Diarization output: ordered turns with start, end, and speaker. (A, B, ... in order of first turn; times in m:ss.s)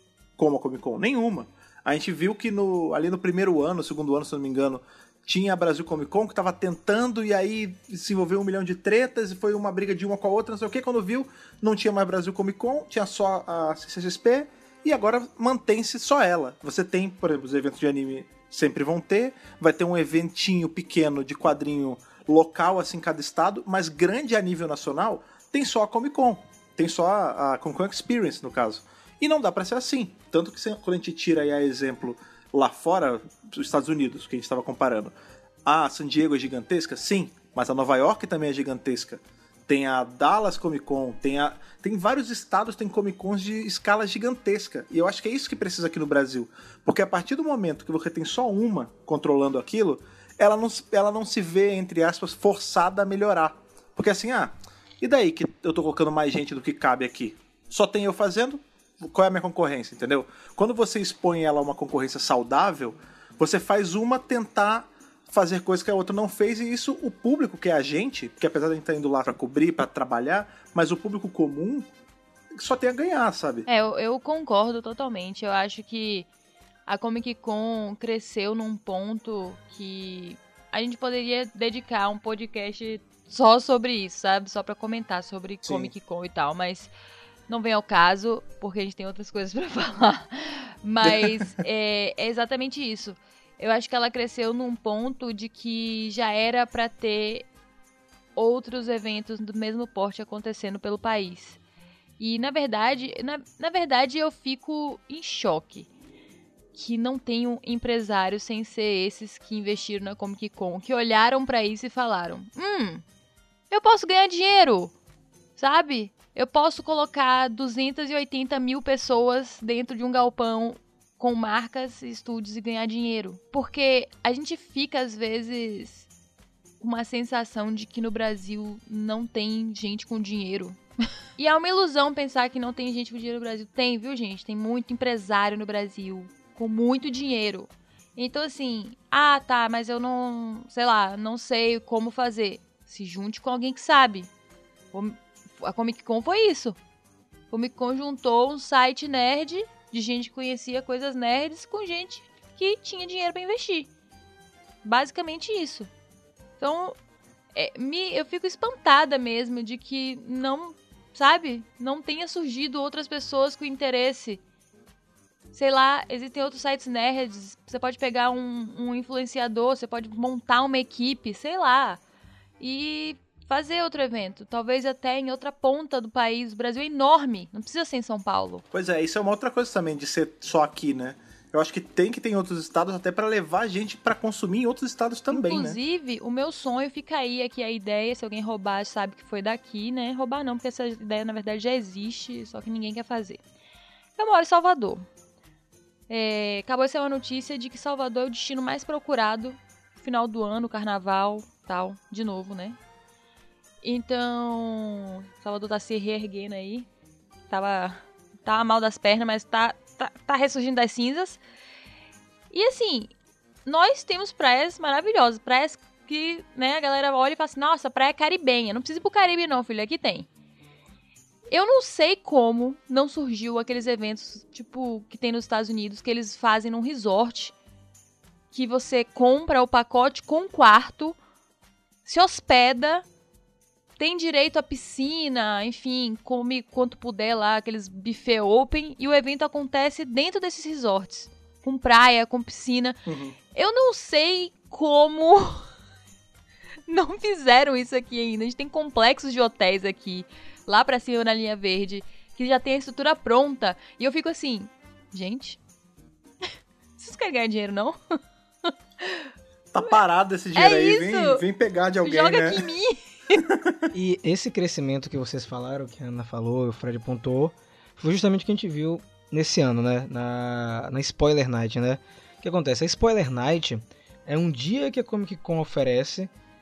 0:00.4-0:35.1 A
0:35.6-1:11.9 A
1:12.6-1:13.6 A
1:13.7-1:16.3 B
1:16.9-1:26.9 B
1:25.6-1:25.9 A
1:27.5-1:37.5 B
1:31.0-1:31.4 A
1:38.4-1:41.6 B
1:42.2-1:45.9 B
1:46.7-1:53.0 B
1:53.7-1:54.9 B
1:55.6-2:06.1 B
2:06.8-2:10.8 B
2:11.4-2:24.3 B
2:24.9-2:26.8 B
2:27.5-2:33.9 B
2:34.8-2:35.9 B
2:36.6-2:37.0 B
2:37.5-2:44.4 B
2:45.5-2:52.0 B
2:52.6-2:58.6 B
2:58.7-3:05.8 A
3:05.3-3:13.4 B
3:14.2-3:15.0 B
3:16.1-3:22.8 B
3:23.8-3:26.9 B
3:27.5-3:31.4 B
3:32.5-3:33.1 B
3:33.6-3:40.3 B
3:41.5-3:47.5 B
3:48.5-3:51.2 B
3:52.0-3:53.0 B
3:54.0-4:03.0 B
4:03.1-4:03.3 A
4:03.5-4:05.6 B
4:06.9-4:15.6 B
4:17.0-4:18.0 B
4:18.7-4:19.3 B
4:19.7-4:22.6 A
4:20.5-4:21.4 B
4:22.0-4:23.4 B
4:23.4-4:23.9 A
4:23.9-4:36.3 C